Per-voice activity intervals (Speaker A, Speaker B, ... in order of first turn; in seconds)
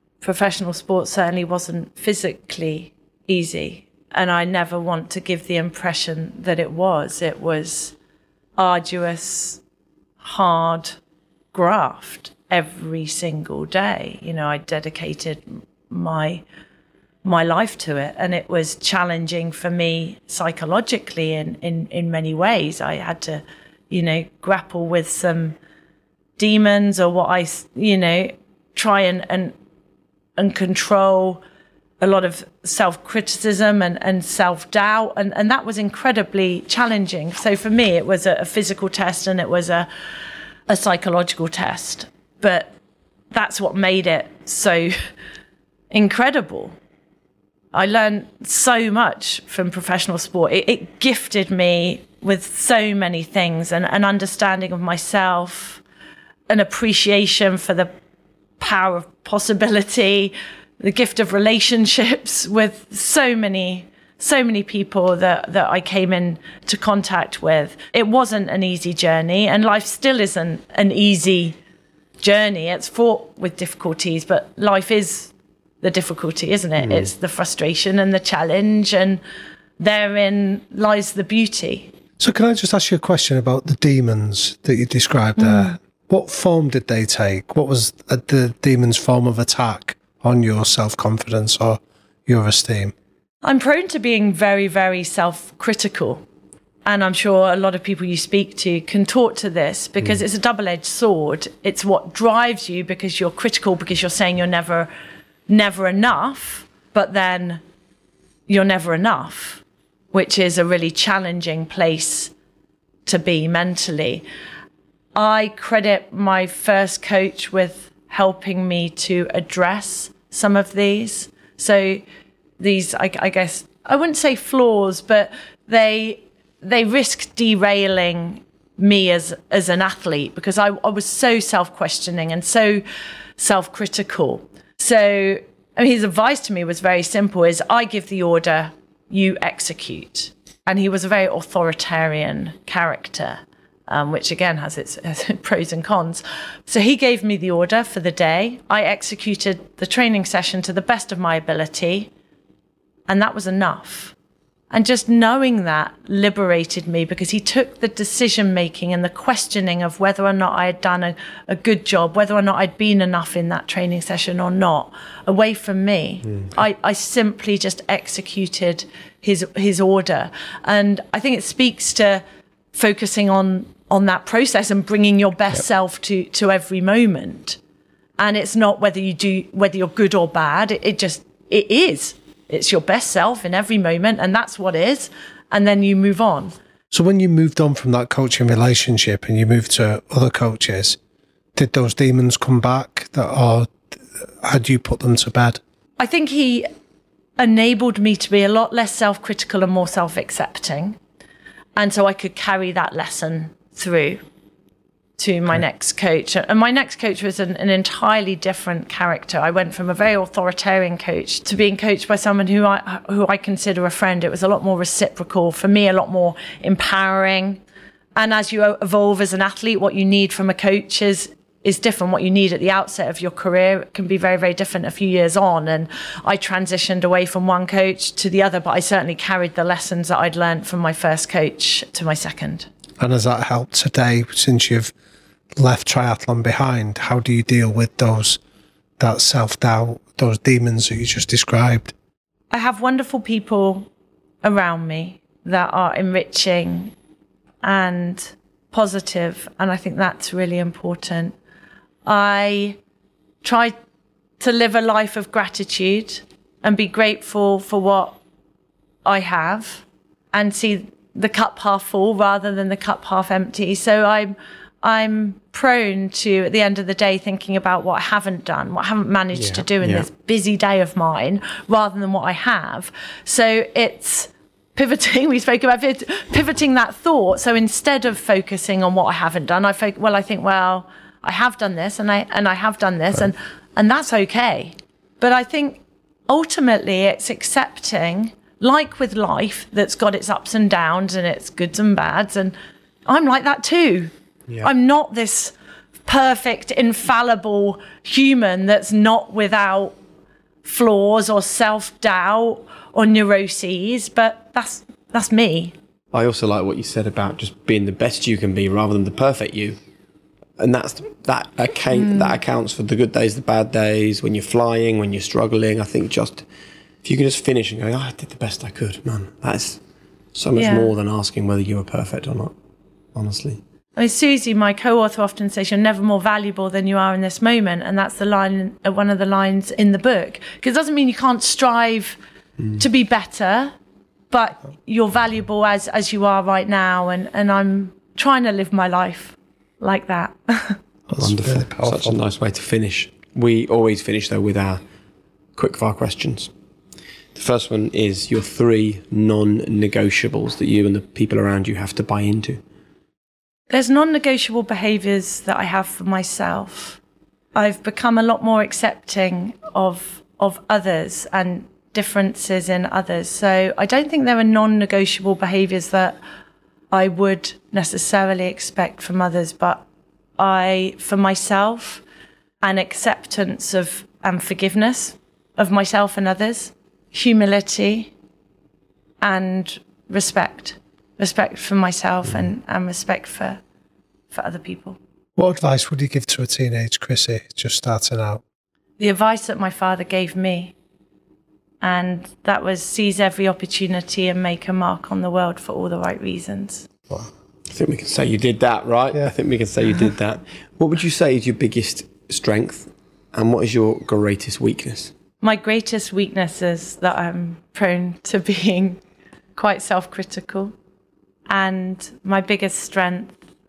Speaker A: 0.2-7.9, 8.6-9.6, 10.2-11.0, 11.5-16.4, 17.2-25.6, 26.4-29.5, 30.4-31.4, 32.0-39.9, 40.7-42.7, 43.3-45.0, 45.9-46.7, 47.7-55.8, 56.5-57.9, 58.6-71.6, 72.2-79.2, 79.8-81.9, 93.4-96.2, 96.8-104.9, 105.5-107.6, 108.5-112.3, 113.0-114.2, 115.1-122.0, 122.6-132.8, 133.4-152.1, 153.1-154.1, 154.7-172.2, 172.7-177.6, 178.2-186.5, 196.0-196.7, 197.4-201.0, 201.8-204.2, 205.2-217.6, 218.2-232.7, 242.5-243.9, 244.4-246.9, 247.6-251.3, 252.1-252.8, 253.4-253.7, 254.4-258.2, 259.0-292.5, 293.1-295.5, 296.1-299.9, 300.6-305.7, 311.9-312.3, 320.6-320.9, 323.9-332.2, 332.8-333.7, 334.3-340.8, 353.7-357.0, 357.5-366.2, 366.9-369.8, 370.4-372.0, 372.6-378.1, 379.2-383.6, 384.3-385.0, 389.0-390.7, 391.8-396.9, 405.4-409.0, 409.6-410.7, 411.5-413.4
Speaker B: 82.2-92.9, 186.9-191.0, 191.5-193.7, 194.4-195.6, 233.0-234.9, 235.6-238.4, 239.0-241.9, 341.1-342.2, 385.4-388.4
Speaker C: 269.4-270.1, 306.1-309.8, 310.6-316.4, 317.0-319.8, 320.3-322.5, 323.1-323.6, 341.2-344.8, 345.6-346.5, 347.3-352.6, 397.7-405.1